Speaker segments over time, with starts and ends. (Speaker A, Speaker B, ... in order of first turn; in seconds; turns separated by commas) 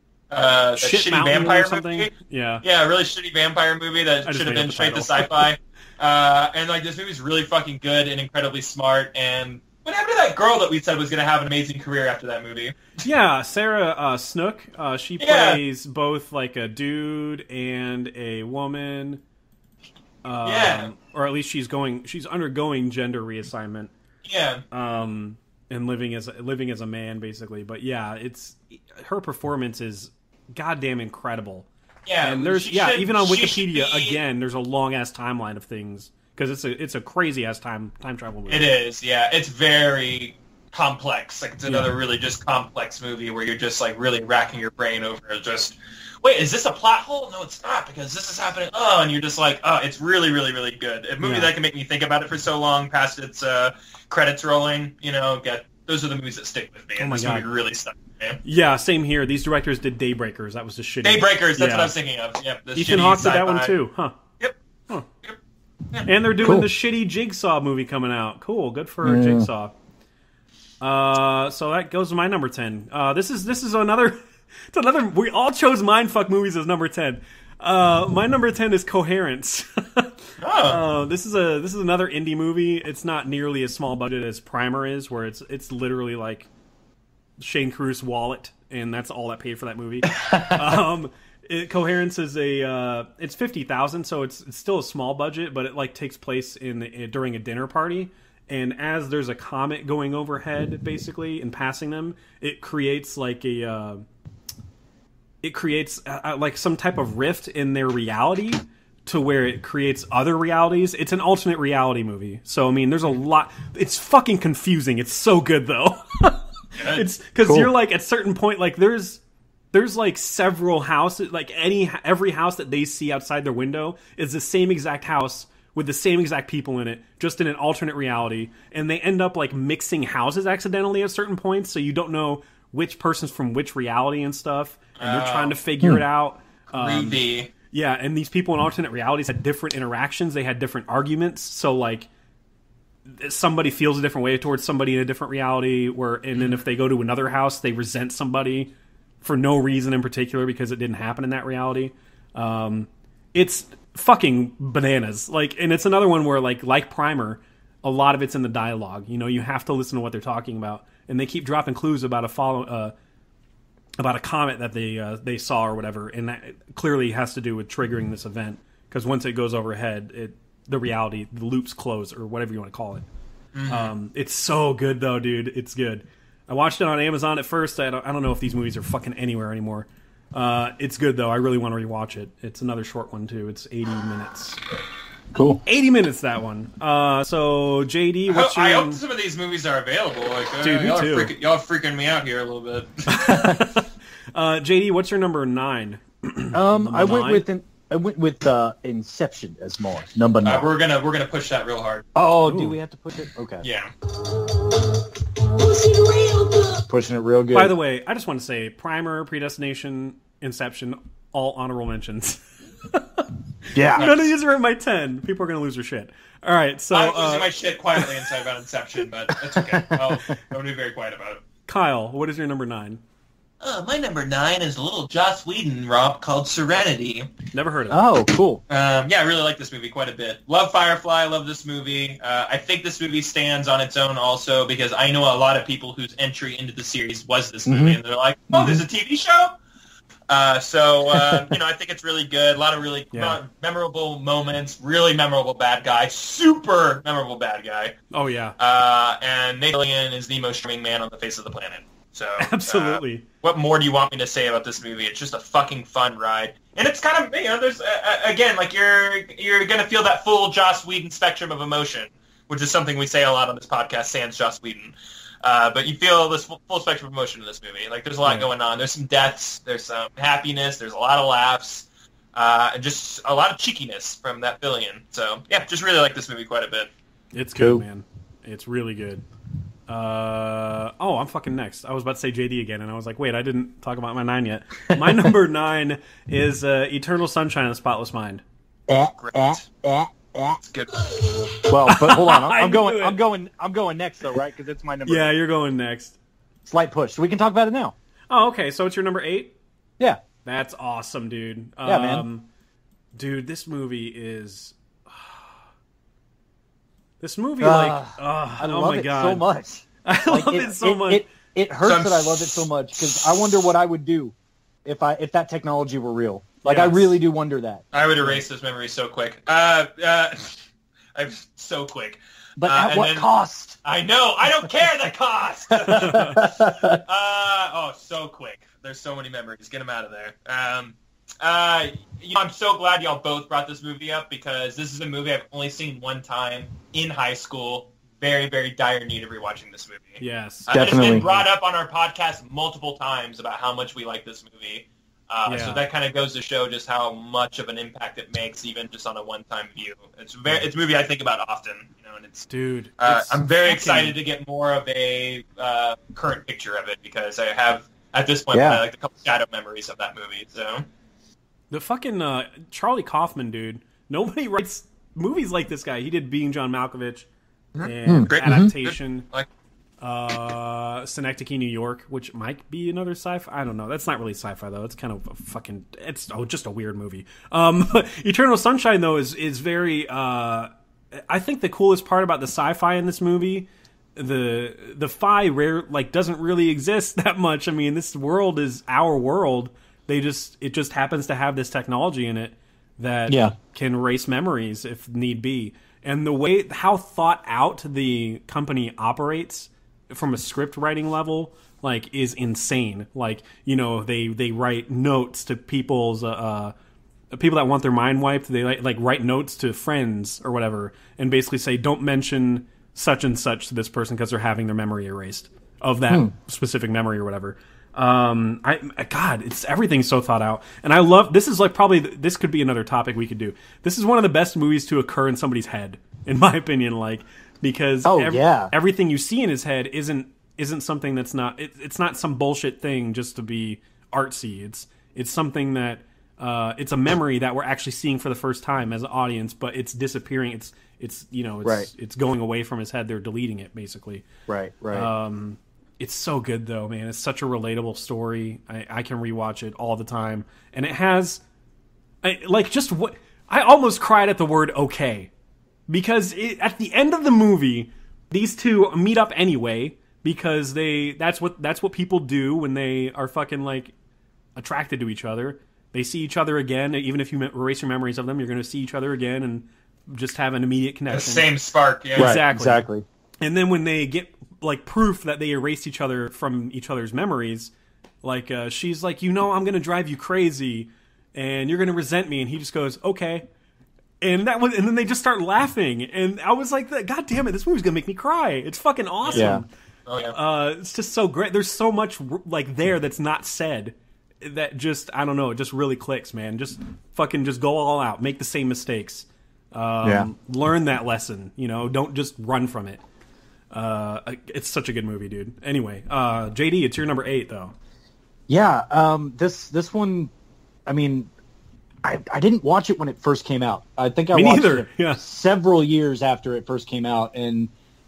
Speaker A: 0.3-2.1, Speaker B: 0.8-2.6, Speaker A: 2.6-12.9, Speaker B: 4.2-5.5, Speaker B: 13.0-19.2, Speaker A: 15.2-15.6, Speaker B: 20.2-23.9, Speaker A: 20.4-20.9, Speaker A: 24.2-24.6, Speaker B: 24.7-31.7, Speaker A: 32.1-34.2, Speaker B: 32.2-38.7, Speaker A: 38.5-58.4, Speaker B: 41.7-41.9, Speaker B: 51.2-51.5, Speaker B: 57.0-57.5, Speaker B: 58.4-61.9, Speaker A: 61.0-63.7, Speaker B: 62.8-64.1, Speaker B: 66.1-69.7, Speaker C: 66.4-66.7, Speaker C: 69.0-69.5, Speaker B: 70.8-86.5, Speaker A: 80.4-80.8, Speaker B: 87.4-104.0, Speaker B: 105.4-119.2, Speaker A: 116.8-117.1, Speaker C: 117.4-117.7, Speaker B: 119.7-142.1, Speaker A: 135.0-135.6, Speaker A: 136.7-137.5, Speaker B: 143.1-162.9, Speaker B: 164.0-173.1, Speaker A: 173.5-173.9, Speaker B: 173.7-184.6, Speaker C: 185.3-185.6, Speaker B: 185.7-189.0, Speaker A: 188.3-193.2, Speaker B: 190.6-191.3, Speaker B: 193.1-197.5, Speaker C: 193.3-193.6, Speaker C: 196.5-200.7, Speaker A: 200.4-202.1, Speaker C: 202.2-203.7, Speaker B: 202.5-202.8, Speaker A: 203.6-203.9, Speaker C: 206.4-207.8, Speaker B: 207.5-213.3, Speaker C: 213.7-214.1, Speaker B: 213.8-217.5, Speaker A: 213.9-214.3, Speaker A: 216.9-221.4, Speaker C: 219.3-220.4, Speaker B: 221.7-223.0, Speaker A: 223.6-227.3, Speaker B: 227.5-228.1, Speaker C: 227.9-228.6, Speaker A: 228.7-239.6, Speaker C: 237.7-238.0, Speaker C: 238.5-238.8, Speaker A: 240.3-248.0, Speaker C: 241.2-241.4, Speaker B: 243.1-243.4, Speaker B: 248.1-248.6, Speaker A: 248.6-276.9, Speaker B: 252.4-253.2, Speaker B: 277.3-279.2, Speaker B: 279.9-288.4, Speaker C: 284.9-285.3, Speaker C: 288.9-290.6, Speaker A: 289.2-289.7, Speaker A: 290.6-291.1, Speaker C: 291.7-295.3, Speaker B: 291.9-293.2, Speaker B: 295.1-296.2, Speaker C: 296.7-297.9, Speaker B: 298.3-299.6, Speaker B: 300.4-302.5, Speaker C: 301.8-302.3, Speaker B: 303.2-305.5, Speaker B: 307.2-309.5, Speaker C: 307.6-317.9, Speaker B: 310.0-311.2, Speaker A: 311.8-313.4, Speaker B: 316.6-317.2, Speaker A: 317.9-320.6, Speaker A: 321.1-323.3, Speaker C: 322.6-323.8, Speaker A: 323.8-360.9, Speaker C: 325.7-327.0, Speaker B: 325.9-326.4, Speaker B: 340.2-341.5, Speaker C: 340.7-341.3, Speaker B: 345.5-345.8, Speaker B: 352.5-354.2, Speaker C: 358.5-358.8, Speaker B: 361.7-367.3, Speaker A: 367.8-369.5, Speaker B: 367.8-369.3, Speaker C: 368.1-368.7, Speaker B: 370.0-380.7, Speaker B: 381.3-406.8, Speaker C: 393.3-393.5, Speaker B: 407.3-444.3, Speaker C: 428.0-428.7, Speaker C: 441.6-441.9, Speaker C: 444.5-445.1, Speaker B: 444.9-451.4, Speaker B: 452.2-455.3, Speaker B: 455.9-463.9, Speaker B: 464.6-471.5, Speaker A: 471.1-472.4, Speaker B: 472.2-472.8, Speaker C: 472.2-473.1, Speaker B: 473.4-477.7, Speaker B: 478.2-483.5, Speaker B: 484.2-489.7, Speaker A: 489.2-489.5, Speaker C: 489.3-489.6, Speaker A: 490.1-490.4, Speaker B: 490.3-503.0, Speaker B: 503.7-507.7, Speaker C: 508.5-510.3, Speaker C: 510.9-511.3, Speaker C: 512.0-517.7, Speaker B: 514.3-515.2